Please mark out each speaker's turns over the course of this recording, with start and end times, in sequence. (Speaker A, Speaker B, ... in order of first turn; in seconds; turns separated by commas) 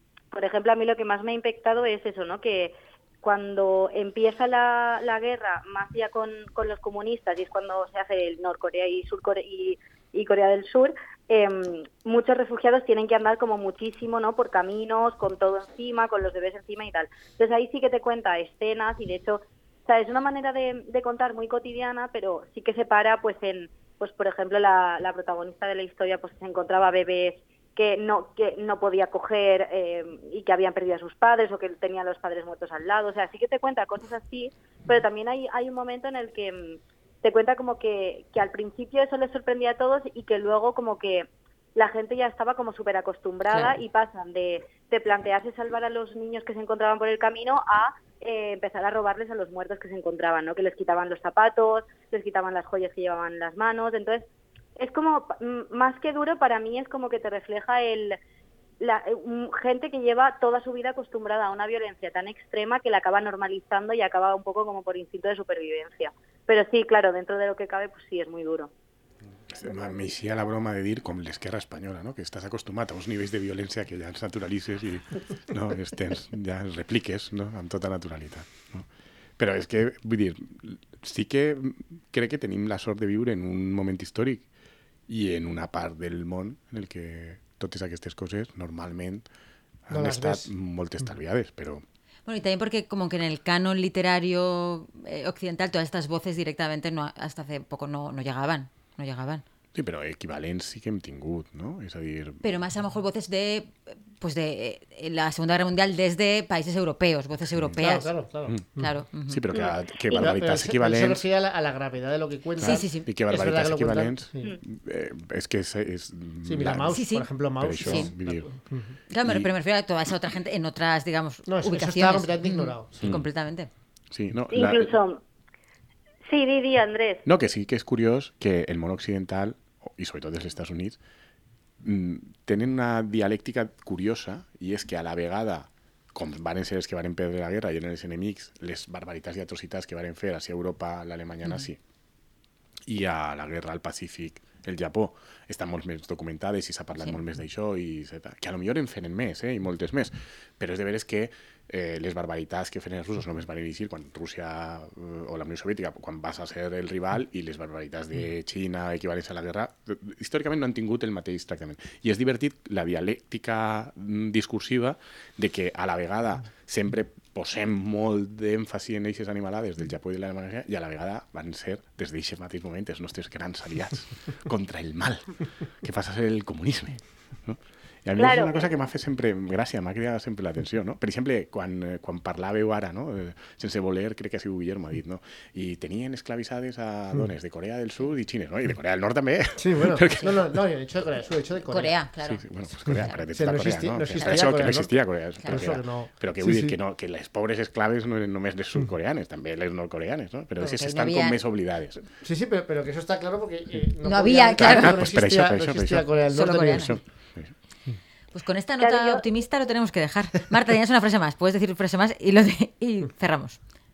Speaker A: 0.3-54.2, Speaker A: 54.8-58.2, Speaker A: 58.8-68.7, Speaker B: 69.5-78.9, Speaker B: 79.4-84.5, Speaker B: 85.1-89.2, Speaker B: 89.9-91.8, Speaker C: 89.9-91.1, Speaker D: 92.3-99.4, Speaker B: 99.7-102.4, Speaker D: 102.4-108.1, Speaker C: 107.8-109.0, Speaker D: 108.8-109.4, Speaker B: 109.3-111.2, Speaker A: 109.5-110.2, Speaker C: 110.1-114.5, Speaker D: 112.6-113.1, Speaker B: 112.6-117.0, Speaker C: 116.4-119.0, Speaker D: 116.9-117.3, Speaker B: 117.6-118.5, Speaker D: 117.8-118.1, Speaker D: 119.1-123.7, Speaker B: 119.2-119.5, Speaker C: 121.5-123.1, Speaker B: 123.0-123.2, Speaker B: 124.1-124.9, Speaker A: 124.5-125.2, Speaker A: 126.3-127.2, Speaker B: 127.2-131.0, Speaker B: 131.8-141.8, Speaker B: 142.8-190.4, Speaker A: 178.2-178.7, Speaker C: 189.6-192.0, Speaker D: 191.7-193.2, Speaker B: 192.2-202.0, Speaker C: 193.3-196.8, Speaker D: 194.1-194.7, Speaker D: 195.4-195.7, Speaker D: 200.6-201.4, Speaker C: 202.2-207.0, Speaker D: 204.0-205.1, Speaker B: 204.6-206.1, Speaker D: 206.3-206.9, Speaker D: 208.3-213.6, Speaker A: 208.8-209.2